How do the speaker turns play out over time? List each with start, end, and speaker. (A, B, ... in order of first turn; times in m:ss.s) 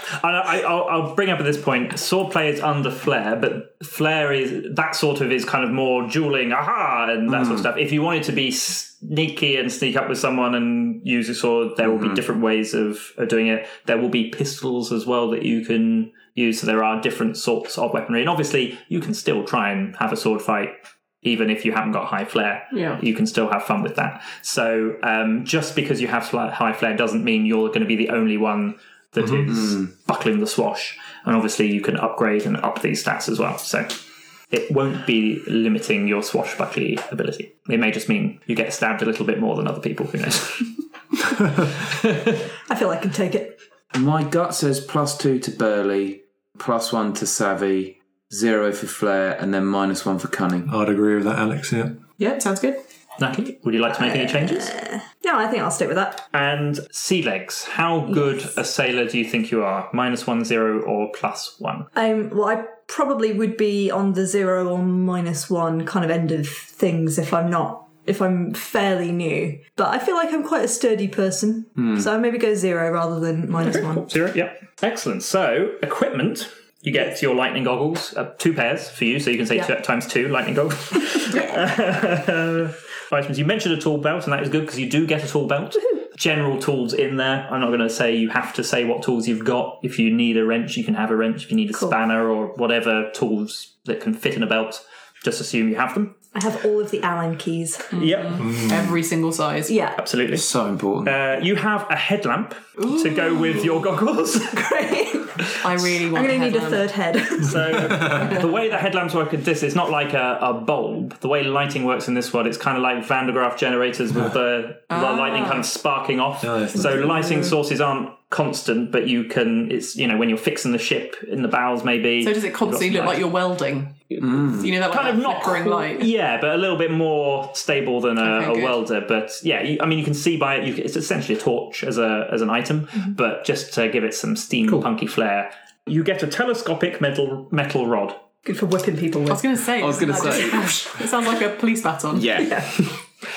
0:00.2-0:33.9 A
0:07.3-0:07.6 B
0:11.8-0:12.2 B
0:22.7-0:23.0 C
0:34.5-0:40.7 A
0:41.7-0:42.1 A
0:42.7-0:43.6 D
0:43.9-0:50.7 B
0:50.6-0:52.0 E
0:52.2-0:52.8 C
0:53.2-0:54.7 A
0:53.9-0:56.2 D
0:56.3-1:01.9 A
0:58.1-0:58.4 D
1:01.9-1:14.2 D
1:11.8-1:12.1 B
1:13.6-1:36.2 A
1:21.3-1:21.7 D
1:36.3-1:37.9 D
1:38.0-1:38.5 A
1:38.0-1:39.7 C
1:38.4-1:38.9 E
1:39.7-1:40.0 D
1:40.0-1:40.4 A
1:40.3-1:41.2 B
1:41.0-1:44.6 A
1:44.5-1:45.3 D
1:45.6-1:46.8 C
1:46.1-1:48.0 D
1:47.4-2:03.3 A
1:54.9-1:55.7 C
1:56.4-1:57.1 E
2:02.2-2:06.1 C
2:04.2-2:04.7 B
2:04.2-2:18.2 A
2:08.2-2:08.8 C
2:18.4-2:19.5 D
2:19.3-2:22.4 C
2:19.7-2:20.8 B
2:22.1-2:22.9 B
2:22.4-2:22.7 D